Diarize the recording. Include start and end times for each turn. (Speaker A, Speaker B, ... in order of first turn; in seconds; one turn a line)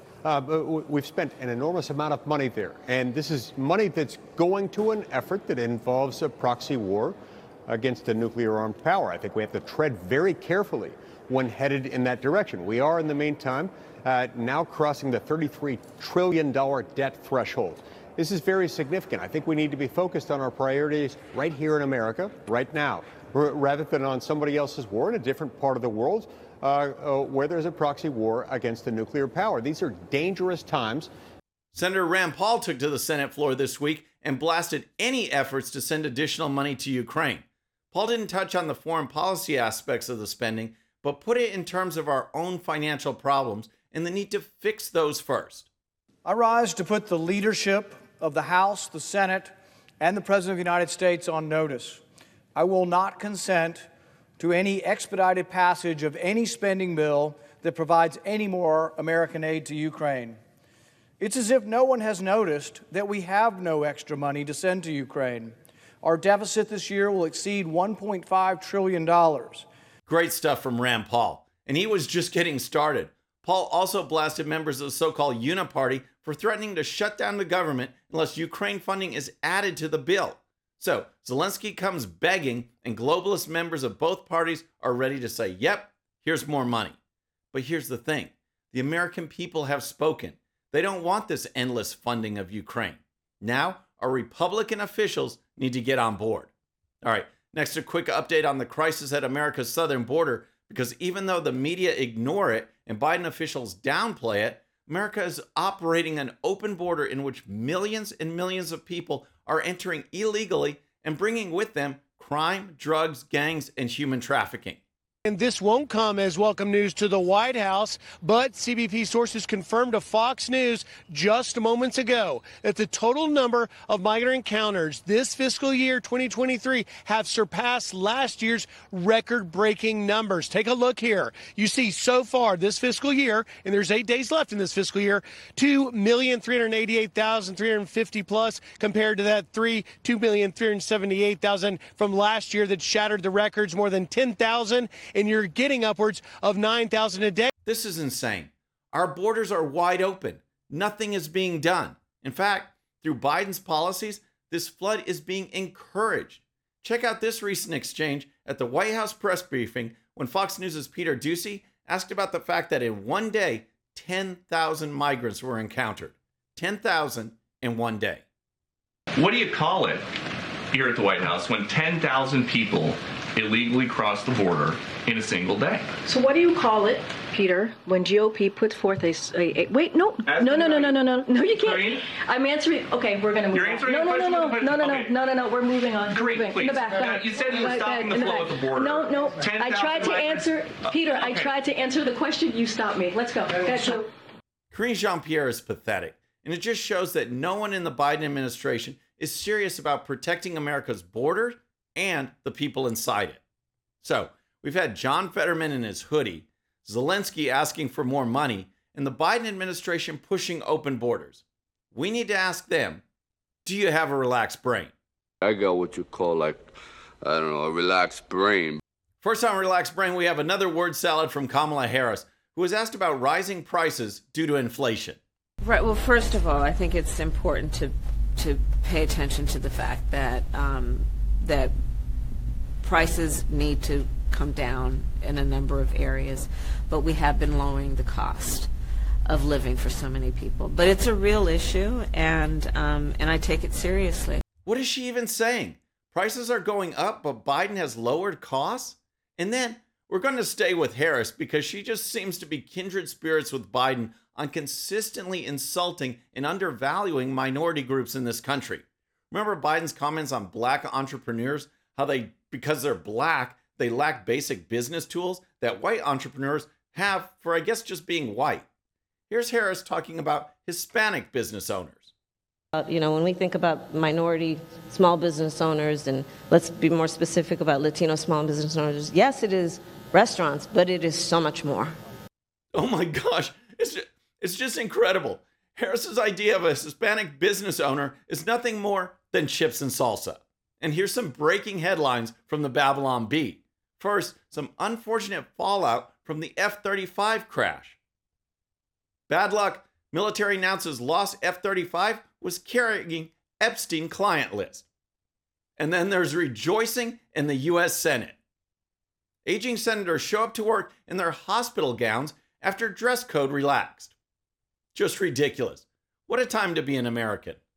Speaker A: 0.2-7.2
Speaker A: 7.7-31.1
Speaker B: 31.7-45.7
Speaker C: 46.2-49.5
Speaker C: 50.0-51.9
Speaker C: 52.6-53.8
Speaker C: 54.4-60.3
Speaker C: 61.3-65.5
Speaker C: 66.1-69.5
Speaker B: 70.1-87.0
Speaker B: 87.5-96.5
Speaker B: 97.0-114.8
Speaker D: 115.2-147.5
Speaker B: 147.6-168.2
Speaker E: 169.1-170.0
Speaker E: 170.7-175.9
Speaker F: 176.0-194.1
Speaker E: 180.2-180.9
Speaker E: 181.5-182.0
Speaker E: 183.5-185.1
Speaker E: 186.1-191.5
Speaker B: 194.7-203.4
Speaker B: 204.0-213.0
Speaker B: 213.6-214.9
Speaker G: 215.4-218.8
Speaker B: 219.2-225.2
Speaker H: 225.6-231.7
Speaker H: 232.8-238.7
Speaker H: 239.2-244.4
Speaker B: 244.7-268.7
Speaker B: 269.3-272.1
Speaker I: 272.7-281.9
Speaker B: 282.7-298.0
Speaker B: 299.3-304.9
Speaker B: 305.8-308.4
Speaker B: 309.4-314.1
Speaker B: 314.9-317.6